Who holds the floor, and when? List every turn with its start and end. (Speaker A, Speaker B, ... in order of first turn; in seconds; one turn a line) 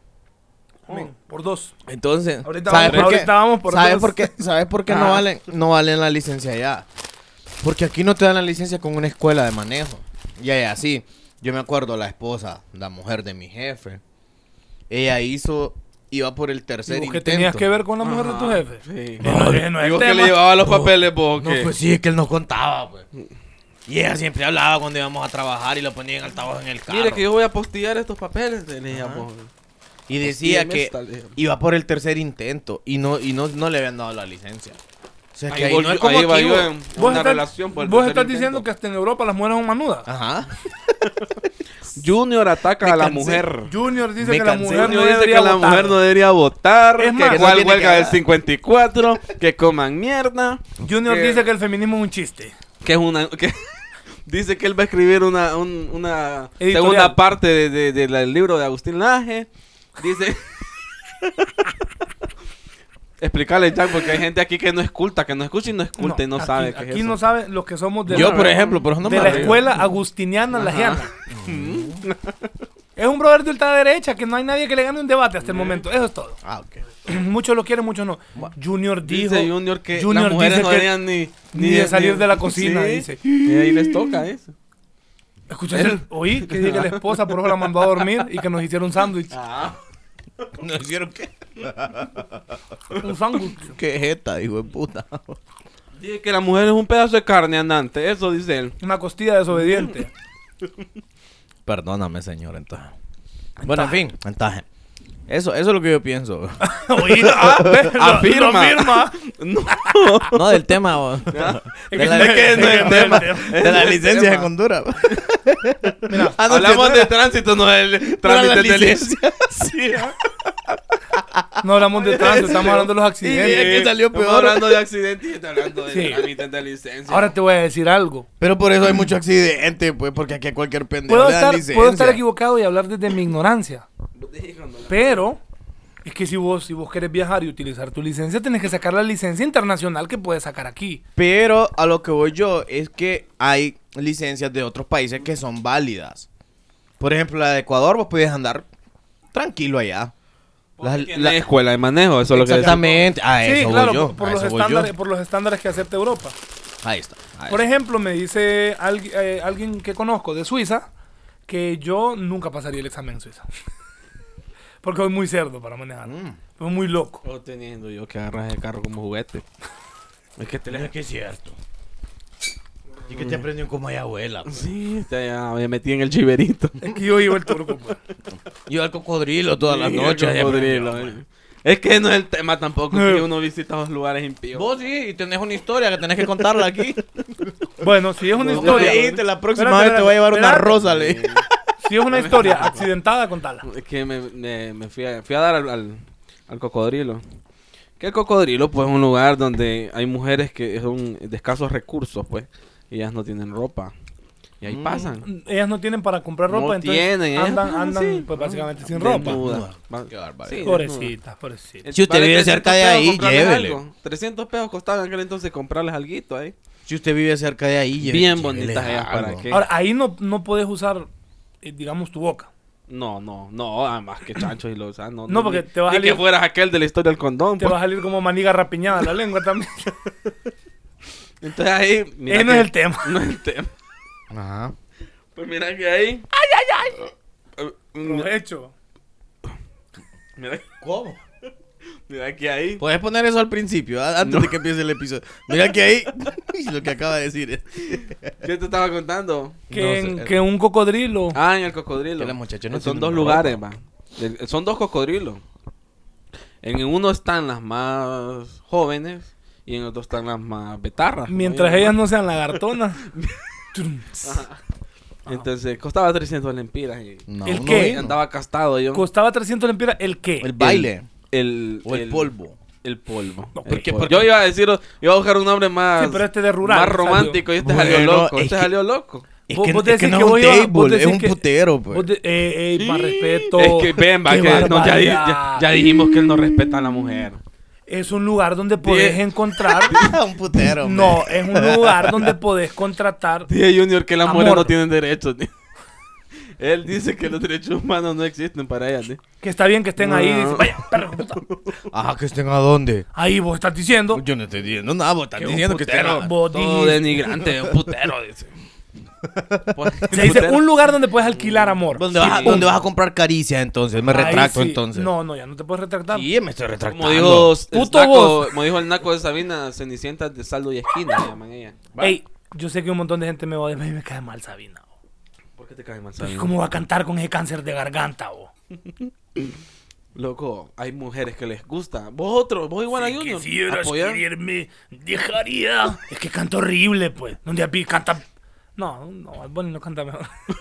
Speaker A: 0.9-1.7
Speaker B: 1.9-6.9
Speaker A: 2.4-4.3
Speaker C: 2.7-3.2
Speaker C: 4.9-5.2
Speaker B: 7.6-14.0
Speaker B: 14.9-17.6
Speaker A: 16.9-20.4
Speaker C: 18.0-21.7
Speaker B: 19.2-19.8
Speaker B: 20.6-23.1
Speaker B: 23.9-27.2
Speaker C: 26.9-29.5
Speaker B: 28.9-29.2
Speaker B: 30.1-34.8
Speaker C: 30.2-31.4
Speaker B: 35.3-36.7
Speaker C: 35.5-38.6
Speaker A: 37.0-40.1
Speaker B: 40.0-40.5
Speaker C: 41.9-43.7
Speaker B: 42.8-43.4
Speaker A: 43.6-46.0
Speaker B: 44.2-45.0
Speaker C: 44.6-51.4
Speaker A: 47.0-47.6
Speaker B: 47.2-48.2
Speaker A: 50.8-52.5
Speaker C: 52.8-53.6
Speaker C: 54.2-60.4
Speaker A: 56.6-57.2
Speaker C: 63.2-67.2
Speaker A: 66.0-71.1
Speaker C: 68.1-69.8
Speaker B: 68.1-69.7
Speaker C: 70.5-72.5
Speaker B: 71.3-72.0
Speaker A: 73.0-76.4
Speaker C: 75.4-75.8
Speaker B: 76.4-76.8
Speaker A: 77.0-81.0
Speaker C: 79.0-84.5
Speaker A: 81.5-83.2
Speaker A: 85.5-89.3
Speaker C: 85.7-87.9
Speaker C: 89.3-89.8
Speaker B: 90.6-92.4
Speaker A: 93.0-93.8
Speaker B: 93.7-95.4
Speaker C: 96.0-98.8
Speaker A: 98.8-100.1
Speaker C: 99.6-100.0
Speaker B: 101.7-102.9
Speaker A: 103.6-104.0
Speaker B: 103.6-104.6
Speaker B: 105.3-107.9
Speaker A: 106.6-109.1
Speaker C: 107.2-110.6
Speaker A: 109.8-110.0
Speaker B: 110.3-117.1
Speaker C: 111.3-114.5
Speaker A: 111.9-113.6
Speaker A: 116.1-116.4
Speaker C: 116.5-119.2
Speaker B: 118.2-120.1
Speaker C: 119.8-120.1
Speaker B: 121.1-124.8
Speaker A: 121.6-123.8
Speaker C: 122.0-127.3
Speaker A: 125.9-126.3
Speaker A: 127.1-128.3
Speaker B: 128.4-132.2
Speaker A: 131.1-133.8
Speaker C: 134.2-135.2
Speaker A: 134.9-135.4
Speaker A: 136.0-141.0
Speaker B: 141.2-146.3
Speaker B: 147.0-148.7
Speaker B: 149.3-150.1
Speaker B: 150.8-151.4
Speaker C: 150.8-153.1
Speaker B: 152.3-154.9
Speaker A: 152.6-152.9
Speaker A: 153.4-156.3
Speaker B: 156.8-157.6
Speaker A: 157.5-160.9
Speaker A: 161.5-163.4
Speaker A: 164.8-167.2
Speaker B: 166.0-166.4
Speaker C: 167.2-169.4
Speaker C: 170.4-170.9
Speaker B: 170.7-171.6
Speaker B: 173.1-174.7
Speaker C: 173.1-173.4
Speaker C: 174.5-176.8
Speaker A: 176.8-178.0
Speaker B: 178.3-181.2
Speaker C: 179.6-184.7
Speaker A: 182.9-183.2
Speaker B: 184.5-187.5
Speaker A: 187.8-190.8
Speaker C: 188.4-189.2
Speaker B: 188.4-191.5
Speaker C: 190.8-191.4
Speaker A: 191.8-193.6
Speaker C: 192.1-192.9
Speaker C: 193.6-197.2
Speaker C: 198.0-203.9
Speaker C: 204.6-205.2
Speaker B: 204.6-205.1
Speaker A: 205.2-209.4
Speaker C: 206.5-211.1
Speaker B: 209.0-210.7
Speaker A: 210.6-211.8
Speaker C: 211.8-216.5
Speaker B: 211.9-213.8
Speaker B: 216.8-219.5
Speaker C: 218.0-219.7
Speaker A: 219.5-221.1
Speaker A: 221.6-222.5
Speaker C: 222.9-227.8
Speaker A: 225.3-226.2
Speaker A: 227.6-230.1
Speaker C: 231.4-233.7
Speaker A: 232.3-233.1
Speaker B: 234.3-234.7
Speaker C: 235.3-236.3
Speaker A: 236.3-237.1
Speaker C: 237.6-238.3
Speaker A: 238.0-238.7
Speaker C: 240.4-240.7
Speaker B: 240.8-241.2
Speaker C: 242.1-242.8
Speaker B: 242.8-248.3
Speaker C: 244.2-244.6
Speaker C: 247.9-249.6
Speaker B: 249.7-250.3
Speaker A: 249.7-251.4
Speaker C: 251.3-255.4
Speaker B: 252.2-253.6
Speaker C: 256.6-262.0
Speaker A: 261.3-263.0
Speaker C: 262.5-263.4
Speaker A: 263.7-264.4
Speaker C: 264.2-264.6
Speaker C: 265.2-269.1
Speaker B: 267.3-268.2
Speaker A: 267.4-268.0
Speaker A: 268.9-270.6
Speaker B: 270.4-271.1
Speaker C: 270.6-279.3
Speaker B: 271.8-272.6
Speaker A: 273.6-273.8
Speaker B: 273.6-274.3
Speaker A: 276.0-277.4
Speaker B: 277.6-278.7
Speaker B: 279.5-282.1
Speaker A: 279.5-281.4
Speaker A: 281.9-285.7
Speaker C: 282.8-287.4
Speaker A: 287.9-290.0
Speaker C: 288.8-290.2
Speaker B: 289.9-292.4
Speaker A: 290.8-293.5
Speaker C: 293.5-295.5
Speaker A: 294.2-294.8
Speaker C: 296.6-299.2
Speaker A: 299.4-301.4
Speaker C: 300.0-301.7
Speaker B: 301.9-303.1
Speaker A: 303.1-304.2
Speaker B: 304.1-306.3
Speaker A: 305.4-307.2
Speaker C: 306.2-308.5
Speaker B: 309.2-310.4
Speaker C: 309.7-312.7
Speaker A: 310.1-312.8
Speaker B: 311.9-315.1
Speaker A: 314.1-316.3
Speaker B: 316.1-317.6
Speaker C: 316.9-321.8
Speaker A: 317.7-318.6
Speaker B: 321.9-322.2
Speaker A: 322.0-324.9
Speaker C: 325.6-326.5
Speaker A: 326.2-328.5
Speaker C: 329.0-329.5
Speaker C: 330.1-334.2
Speaker A: 332.9-338.2
Speaker A: 338.8-340.3